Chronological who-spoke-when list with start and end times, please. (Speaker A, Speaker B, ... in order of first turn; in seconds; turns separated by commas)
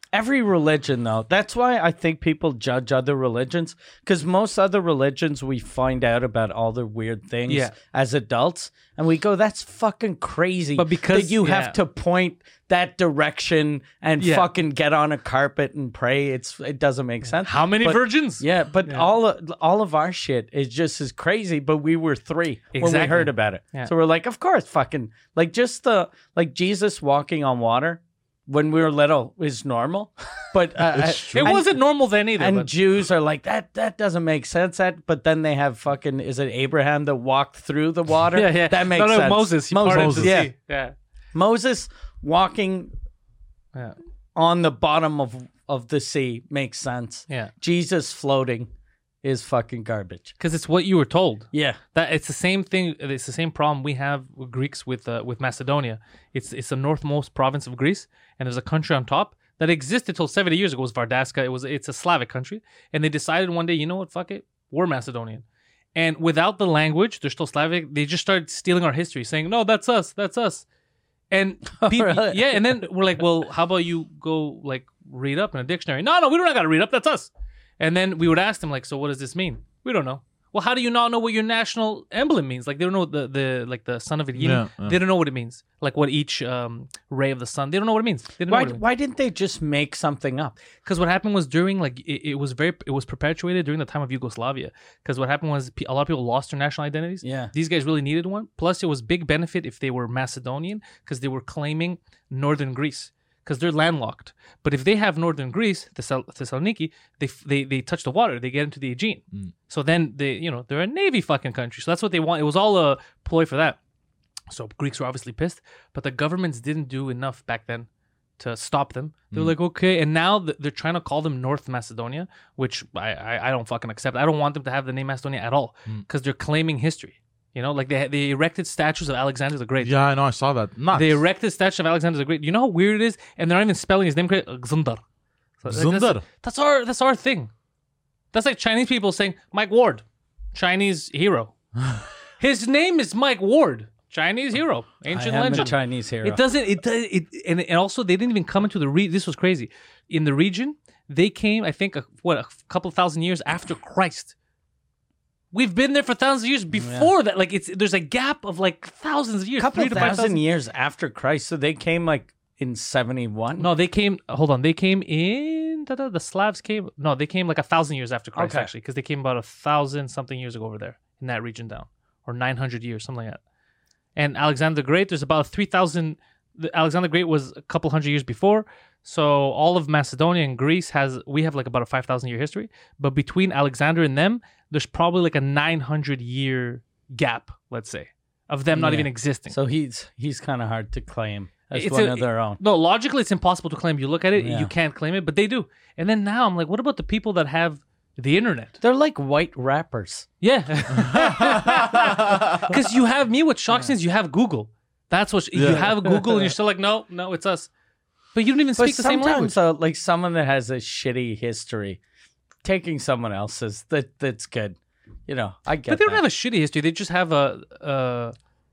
Speaker A: 0.1-40.5, Speaker B: 7.5-7.8, Speaker B: 10.8-11.8, Speaker B: 14.2-14.5, Speaker B: 17.4-19.1, Speaker B: 22.8-23.9, Speaker C: 30.9-31.6, Speaker B: 31.3-32.7, Speaker B: 38.3-40.9, Speaker C: 39.9-40.5, Speaker A: 41.3-42.9, Speaker A: 44.4-48.7, Speaker A: 49.2-50.3, Speaker B: 50.4-65.4, Speaker A: 51.5-51.8, Speaker B: 66.0-70.7, Speaker B: 71.3-88.8, Speaker A: 71.8-72.6, Speaker C: 84.4-85.0, Speaker A: 88.5-90.6, Speaker B: 90.8-113.8, Speaker A: 97.2-97.5, Speaker B: 114.5-117.9, Speaker B: 118.4-130.0, Speaker C: 129.8-131.2, Speaker B: 130.9-135.0, Speaker B: 135.6-137.5, Speaker C: 135.7-136.2, Speaker B: 138.3-141.5, Speaker B: 142.4-154.3, Speaker A: 145.1-146.4, Speaker B: 155.5-160.4, Speaker A: 156.8-157.1, Speaker A: 159.6-163.7, Speaker B: 163.6-173.4, Speaker A: 168.4-168.7, Speaker B: 174.2-189.6, Speaker A: 188.8-192.6, Speaker B: 191.7-198.8, Speaker A: 194.4-194.7, Speaker A: 198.8-200.3, Speaker B: 200.4-207.7, Speaker C: 201.0-202.7, Speaker C: 205.5-206.0, Speaker B: 208.3-209.5, Speaker A: 208.8-212.0, Speaker A: 212.6-214.8, Speaker A: 215.3-216.2, Speaker B: 215.9-218.3